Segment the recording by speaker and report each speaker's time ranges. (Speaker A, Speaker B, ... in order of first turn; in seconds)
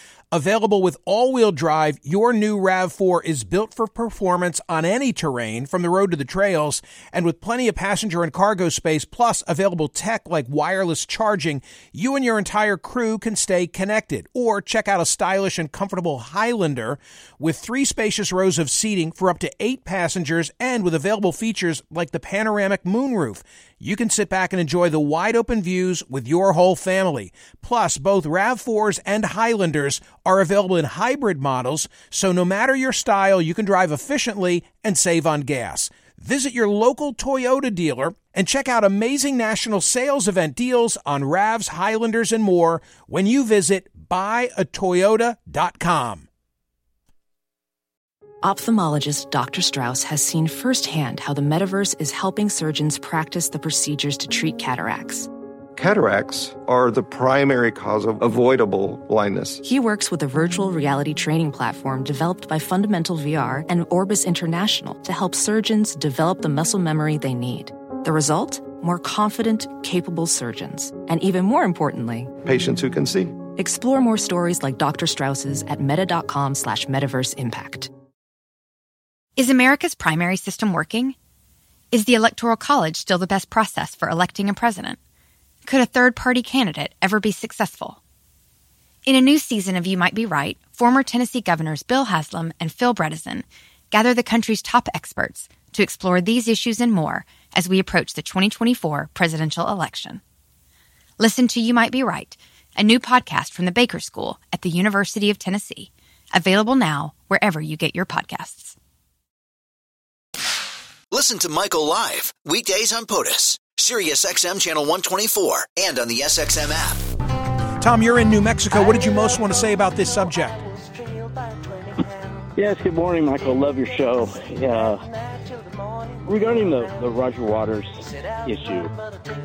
Speaker A: 0.3-46.3, 117.8-120.6
Speaker B: 48.4-55.3, 59.6-72.3, 73.5-77.9
Speaker C: 55.8-59.6, 72.4-73.3
Speaker D: 79.4-81.2, 81.9-85.0, 85.6-88.0, 89.0-100.2, 101.2-108.8
Speaker E: 111.1-117.0
Speaker F: 122.5-125.1, 126.2-128.9